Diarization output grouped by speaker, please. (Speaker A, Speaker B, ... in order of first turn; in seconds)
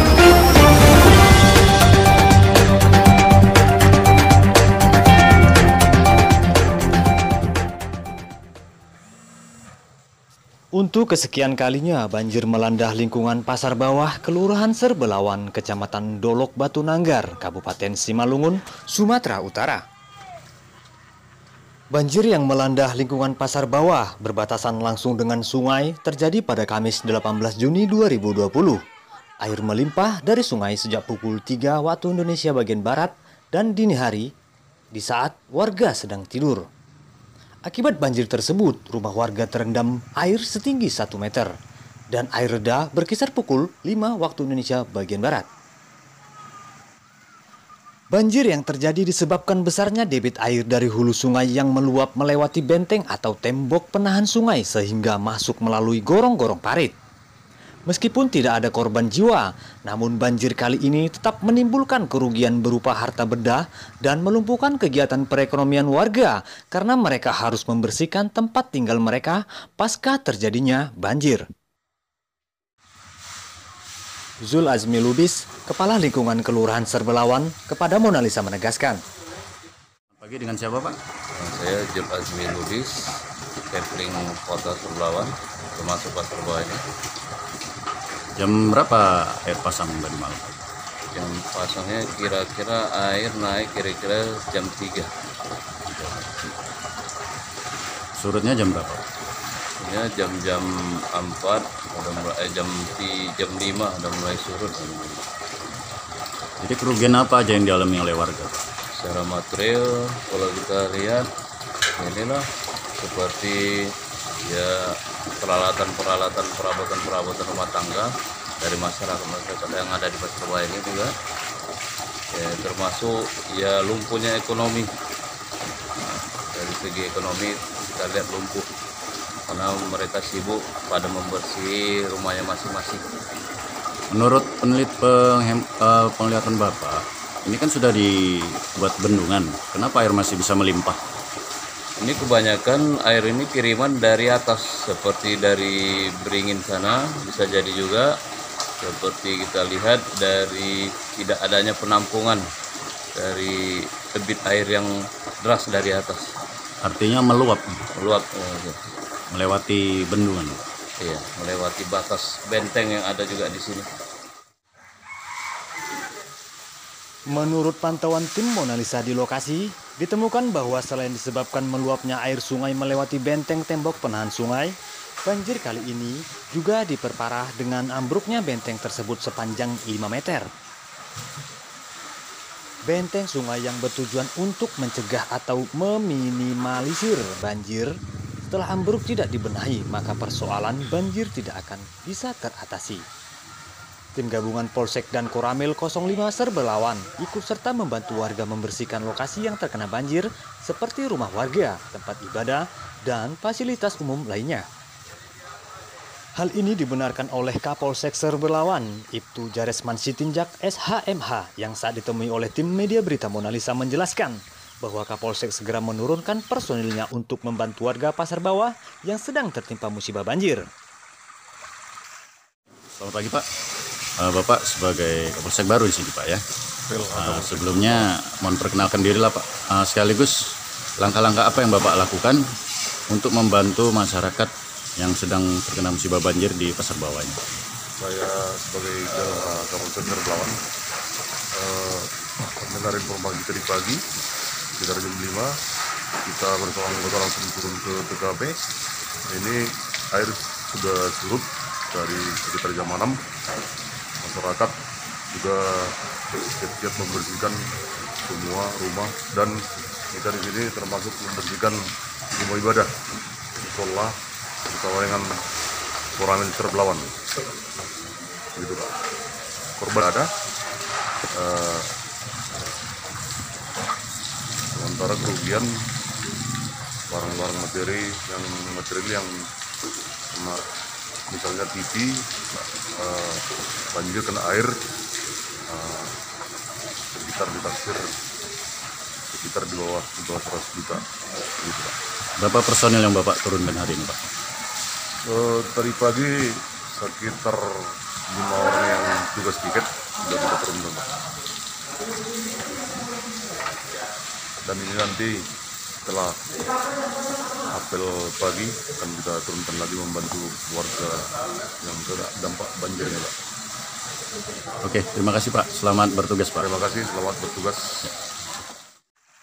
Speaker A: 10.8-19.8, 21.9-28.8, 29.4-34.3, 34.9-36.7, 37.7-41.5, 42.1-45.5, 48.1-56.9, 57.9-71.4, 74.4-79.0, 167.3-180.5, 182.9-187.9, 188.5-193.1, 194.2-204.7, 206.4-220.7
Speaker B: 80.2-81.0, 88.4-90.5, 95.9-96.5, 98.2-99.0, 106.6-108.6, 134.1-141.0, 156.8-157.8, 159.3-160.6, 222.9-223.5, 224.2-226.4, 227.2-232.4, 233.1-237.4, 292.4-294.2, 314.8-316.6
Speaker C: 81.5-82.9, 83.7-86.8, 91.2-95.0, 99.9-100.6, 101.2-105.1, 109.0-109.8, 110.3-111.2, 112.0-112.4, 113.0-113.5, 115.4-118.0, 118.6-121.1, 122.4-124.8, 126.6-128.7, 129.5-133.0, 142.0-145.8, 146.3-148.1, 148.9-152.4, 153.2-153.6, 154.2-154.9, 155.5-156.2, 158.0-158.8, 161.1-163.8
Speaker D: 226.9-228.1, 238.0-240.6, 241.6-242.1, 242.6-244.0, 244.8-245.5, 246.2-248.6, 249.3-249.6, 250.1-253.2, 254.2-254.8, 255.3-255.9, 256.5-257.6, 258.3-259.6, 260.1-261.8, 262.4-262.9, 263.6-264.1, 264.7-265.2, 266.2-267.1, 268.6-268.9, 269.8-270.3, 271.3-271.9, 274.7-275.7, 277.1-279.3, 281.3-282.1, 283.0-283.4, 283.9-284.7, 285.7-286.1, 287.1-288.2, 289.3-291.0, 291.6-291.9, 295.3-296.4, 296.9-297.6, 298.3-301.1, 304.6-305.4, 306.1-306.4, 307.7-311.3, 311.8-313.3, 316.6-318.1